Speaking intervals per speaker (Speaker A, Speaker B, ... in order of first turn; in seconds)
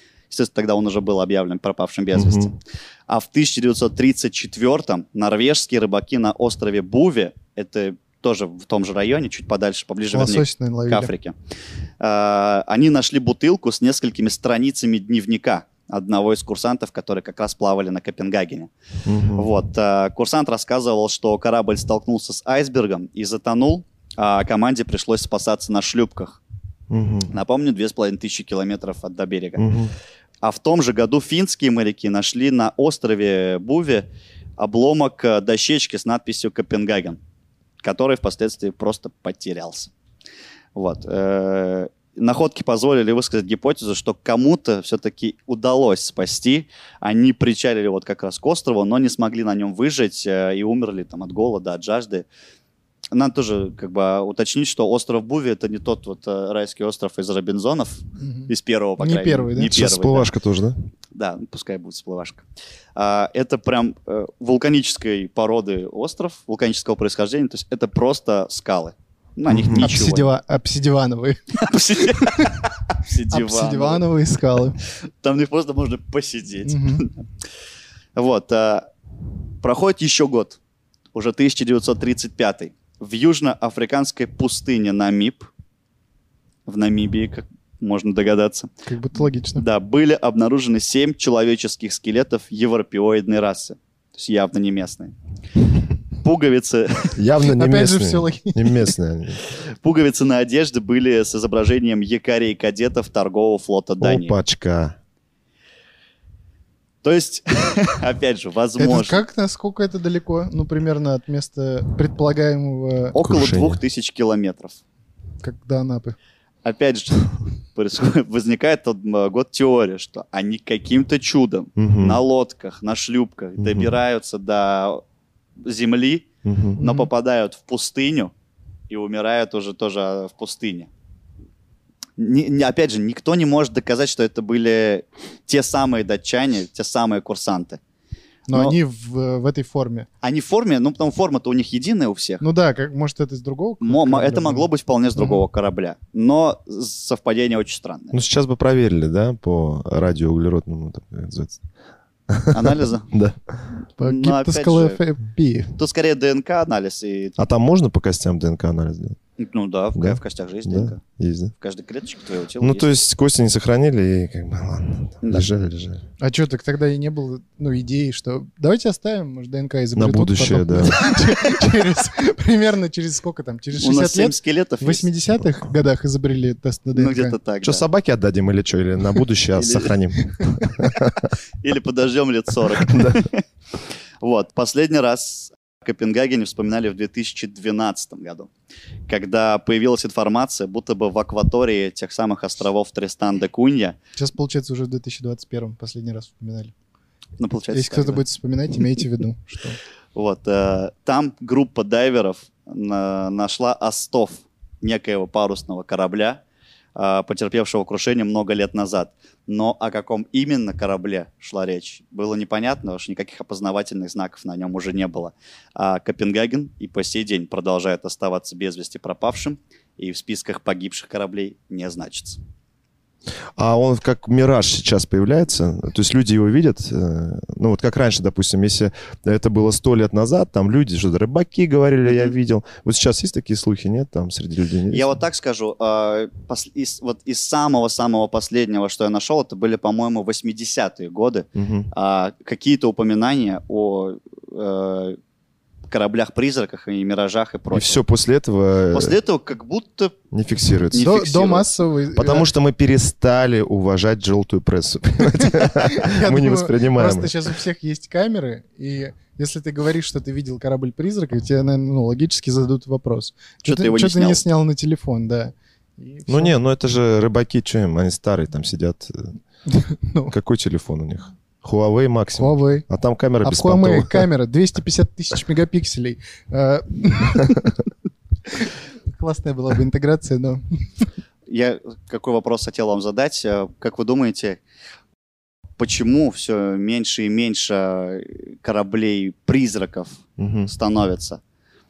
Speaker A: 0.3-2.5, 3.1-11.3, 12.0-18.7, 19.4-26.4, 27.3-29.7, 30.4-34.1, 34.6-37.2, 37.8-39.9, 40.7-52.2, 53.1-60.3, 61.1-62.4, 63.0-70.2, 71.5-74.0, 74.8-77.2, 78.2-78.9, 79.6-80.6, 81.1-85.5, 86.7-88.7, 89.5-95.1, 96.2-97.2, 99.8-104.3, 107.0-109.2, 113.1-114.8, 116.6-125.0, 125.6-126.3, 126.8-128.3, 128.9-130.9, 132.2-137.8, 138.5-138.8, 140.2-142.4, 143.8-148.2, 152.5-153.1, 154.0-155.0, 155.8-157.5, 159.4-161.0, 161.6-162.9, 165.2-165.5, 173.8-175.1, 176.9-177.8, 179.5-179.9, 181.6-183.4, 184.2-188.5, 189.1-193.9, 197.4-198.2, 200.1-206.4, 206.9-222.4, 232.1-232.3, 234.9-245.2, 245.9-247.9, 248.9-250.2, 250.9-251.7, 263.6-264.4, 281.5-284.6, 285.8-291.4
Speaker B: 2.1-2.5, 19.1-19.5, 26.9-27.3, 29.6-29.9, 59.7-60.8, 69.5-69.9, 97.1-99.4, 104.0-105.0, 113.2-113.8, 121.8-122.2, 123.6-123.9, 126.4-126.8, 148.1-151.6, 152.3-153.6, 157.4-159.2, 159.9-161.5, 162.6-166.0, 169.9-171.1, 177.6-181.3, 182.8-183.2, 223.6-235.1, 241.5-241.9, 247.7-249.1, 250.3-251.1, 252.1-257.5, 266.3-269.3, 270.3-274.3, 290.4-290.7
Speaker C: 10.1-11.1, 58.2-59.8, 69.8-72.6, 73.3-74.8, 76.6-77.1, 88.8-89.6, 97.5-98.9, 108.8-113.2, 115.4-116.2, 126.8-127.1, 138.5-140.1, 142.4-145.4, 154.0-155.8, 166.2-177.3, 194.2-196.7, 197.7-199.8, 251.0-252.5, 255.3-266.5, 269.7-270.3, 272.4-272.9, 273.4-277.8, 278.6-281.0